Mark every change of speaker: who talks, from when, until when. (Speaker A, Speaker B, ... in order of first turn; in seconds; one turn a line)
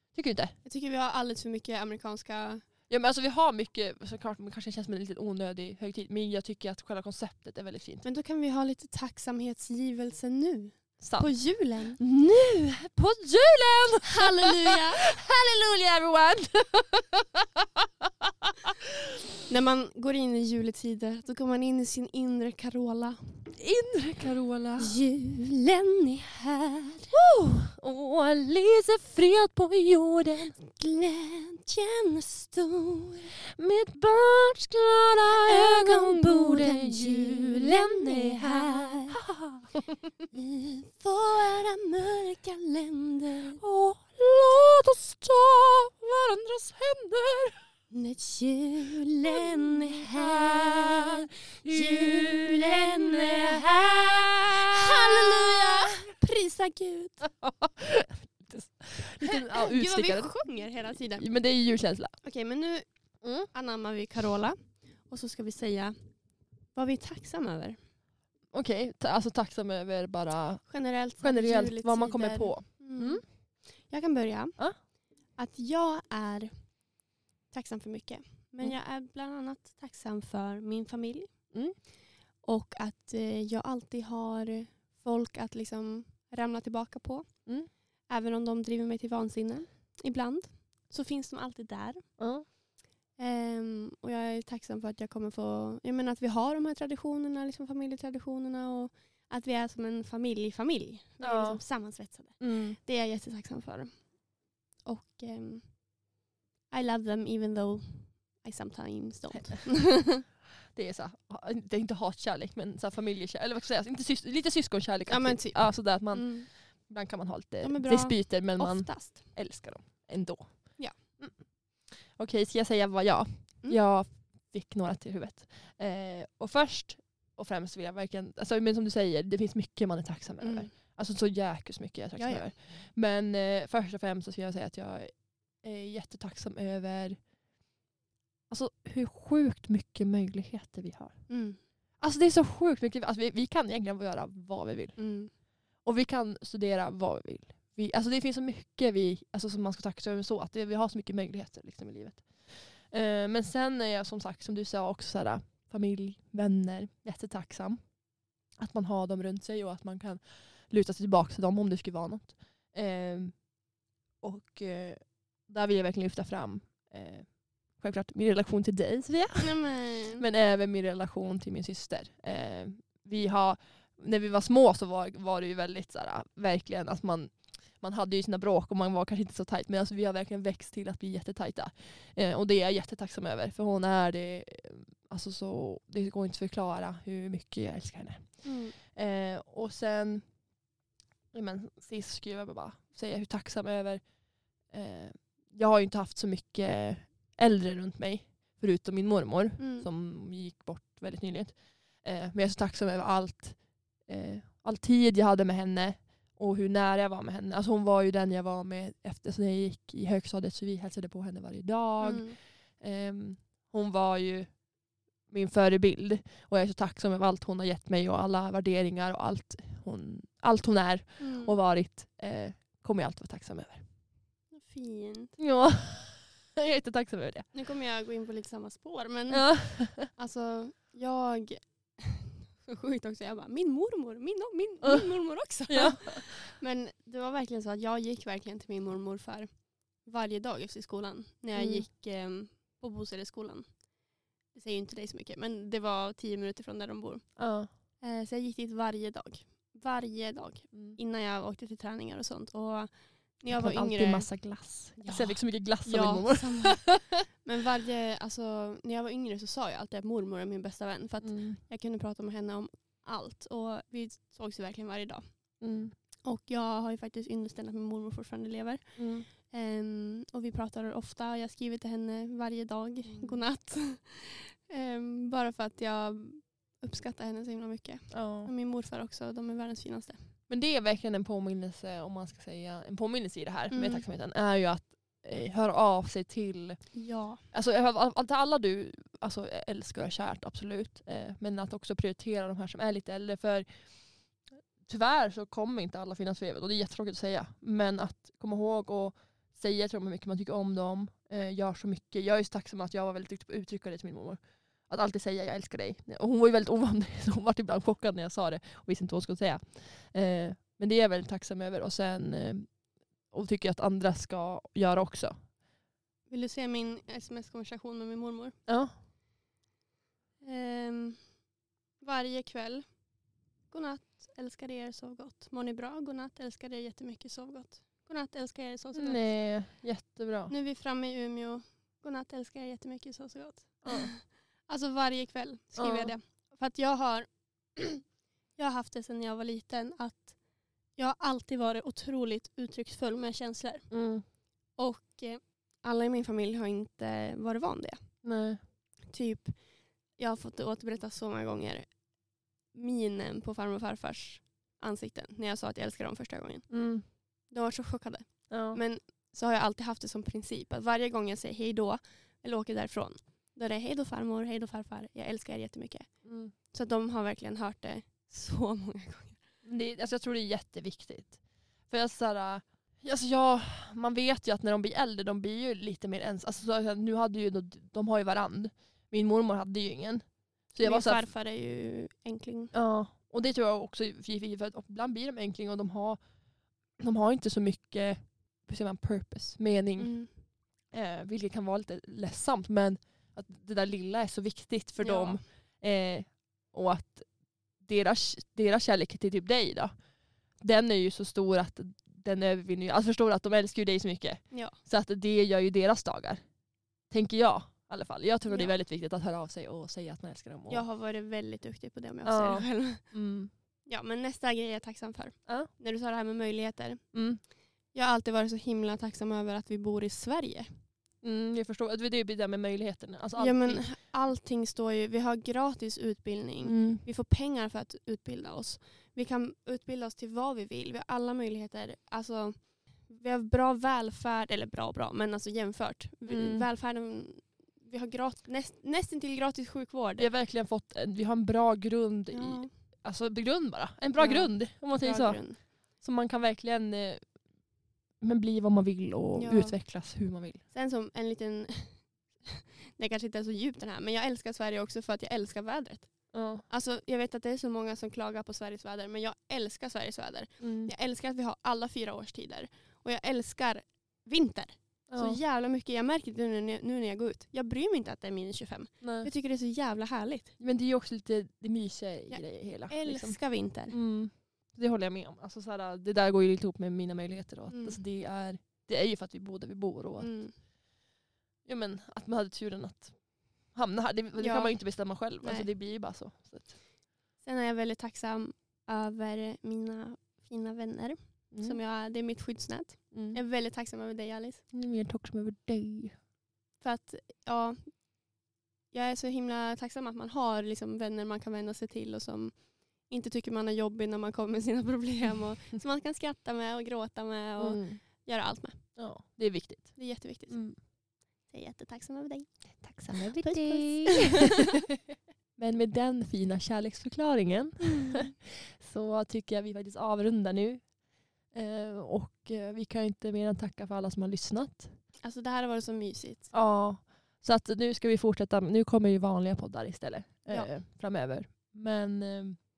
Speaker A: 0.1-0.5
Speaker B: 0.6-2.6
Speaker A: 2.9-8.0
Speaker B: 8.0-12.0
Speaker A: 11.0-18.9
Speaker B: 14.0-15.1
Speaker B: 19.5-23.2
Speaker A: 23.6-24.9
Speaker B: 24.8-27.1
Speaker A: 27.1-30.6
Speaker B: 30.6-33.3
Speaker A: 33.5-40.0
Speaker B: 35.3-39.2
Speaker B: 40.3-43.6
Speaker A: 43.6-47.6
Speaker B: 47.9-57.2
Speaker A: 49.3-56.1
Speaker A: 57.2-60.3
Speaker B: 59.2-61.2
Speaker A: 61.2-62.1
Speaker B: 62.2-62.9
Speaker A: 63.2-63.5
Speaker B: 63.5-65.9
Speaker B: 66.7-67.8
Speaker A: 68.5-73.2
Speaker B: 70.7-73.2
Speaker B: 73.8-74.6
Speaker B: 75.4-76.5
Speaker B: 77.5-81.3
Speaker B: 82.4-87.3
Speaker B: 88.1-92.1
Speaker A: 92.2-92.5
Speaker B: 93.2-104.0
Speaker A: 101.2-101.6
Speaker A: 102.4-102.8
Speaker B: 104.8-105.7
Speaker B: 106.7-110.2
Speaker A: 109.3-109.7
Speaker A: 110.7-137.2
Speaker B: 115.1-116.5
Speaker B: 117.6-119.2
Speaker B: 130.4-130.7
Speaker B: 132.2-132.5
Speaker A: 138.5-141.3
Speaker B: 141.3-141.6
Speaker A: 142.0-145.1
Speaker B: 145.0-145.3
Speaker A: 145.8-157.8
Speaker A: 158.6-163.4
Speaker A: 164.2-169.6
Speaker B: 169.4-170.2
Speaker A: 170.1-190.2
Speaker B: 188.4-188.7
Speaker A: 191.3-194.0
Speaker A: 194.7-214.5
Speaker B: 199.6-199.9
Speaker B: 212.0-212.4
Speaker A: 215.3-223.8
Speaker B: 221.2-221.6
Speaker B: 224.5-225.3
Speaker A: 225.4-227.4
Speaker B: 227.5-229.5
Speaker A: 229.3-230.1
Speaker B: 230.0-243.8
Speaker A: 234.8-235.1
Speaker A: 235.7-236.3
Speaker A: 241.5-241.8
Speaker B: 244.5-247.4
Speaker A: 247.4-247.7
Speaker B: 248.0-254.3
Speaker A: 250.7-251.0
Speaker A: 253.5-257.2
Speaker B: 255.0-265.2
Speaker A: 261.2-261.6
Speaker A: 265.6-265.9
Speaker B: 266.2-280.2
Speaker A: 269.0-269.3
Speaker A: 273.1-273.4
Speaker A: 278.1-278.5
Speaker A: 280.5-286.9
Speaker B: 283.7-284.0
Speaker B: 286.9-287.4
Speaker A: 287.5-293.7
Speaker A: 294.9-312.7
Speaker A: 313.3-315.4
Speaker B: 316.3-318.5
Speaker A: 318.7-318.9
Speaker B: 320.4-321.2
Speaker B: 322.0-322.9
Speaker B: 323.7-329.3
Speaker A: 328.9-330.5
Speaker B: 330.5-338.0
Speaker A: 333.8-334.1
Speaker A: 335.8-336.1
Speaker B: 338.6-340.3
Speaker B: 340.9-343.9
Speaker A: 343.9-344.2
Speaker B: 344.8-348.1
Speaker A: 348.2-348.6
Speaker B: 349.1-349.6
Speaker B: 350.1-352.0
Speaker B: 352.7-356.7
Speaker A: 356.7-357.0
Speaker B: 357.5-366.1
Speaker A: 358.5-358.8
Speaker A: 366.2-366.5
Speaker B: 366.7-369.4
Speaker A: 369.6-371.4
Speaker A: 371.9-381.2
Speaker B: 380.8-382.7
Speaker A: 382.7-386.2
Speaker A: 387.0-390.1
Speaker B: 390.0-390.3
Speaker A: 390.9-397.3
Speaker B: 395.0-395.4
Speaker A: 397.8-399.9
Speaker A: 400.6-406.4
Speaker A: 407.1-410.8
Speaker B: 408.5-408.7
Speaker B: 410.7-413.0
Speaker A: 412.2-413.5
Speaker B: 413.9-417.0
Speaker A: 417.1-417.4
Speaker B: 417.9-420.7
Speaker A: 421.2-423.9
Speaker B: 423.4-440.3
Speaker A: 426.6-427.0
Speaker A: 436.3-436.6
Speaker A: 440.2-445.4
Speaker B: 442.3-442.7
Speaker B: 444.2-445.6
Speaker A: 446.0-447.2
Speaker A: 448.2-450.6
Speaker B: 449.3-449.8
Speaker B: 450.7-456.1
Speaker A: 456.3-456.6
Speaker B: 456.7-470.5
Speaker A: 460.6-460.9
Speaker A: 465.1-465.4
Speaker A: 469.0-469.3
Speaker A: 470.6-473.4
Speaker B: 472.3-473.9
Speaker A: 473.9-480.3
Speaker B: 477.7-478.0
Speaker B: 480.2-480.5
Speaker A: 481.6-483.1
Speaker A: 483.7-486.8
Speaker B: 484.4-484.8
Speaker B: 485.4-485.7
Speaker B: 487.4-494.6
Speaker A: 491.5-491.8
Speaker A: 493.1-493.4
Speaker A: 494.7-496.1
Speaker B: 496.8-497.9
Speaker B: 498.9-508.9
Speaker A: 507.6-508.0
Speaker A: 508.9-510.8
Speaker B: 509.9-510.6
Speaker B: 511.5-512.8
Speaker A: 512.8-514.8
Speaker B: 513.4-514.8
Speaker A: 515.6-520.8
Speaker B: 517.8-518.3
Speaker A: 521.5-524.9
Speaker B: 525.2-526.5
Speaker A: 526.5-532.6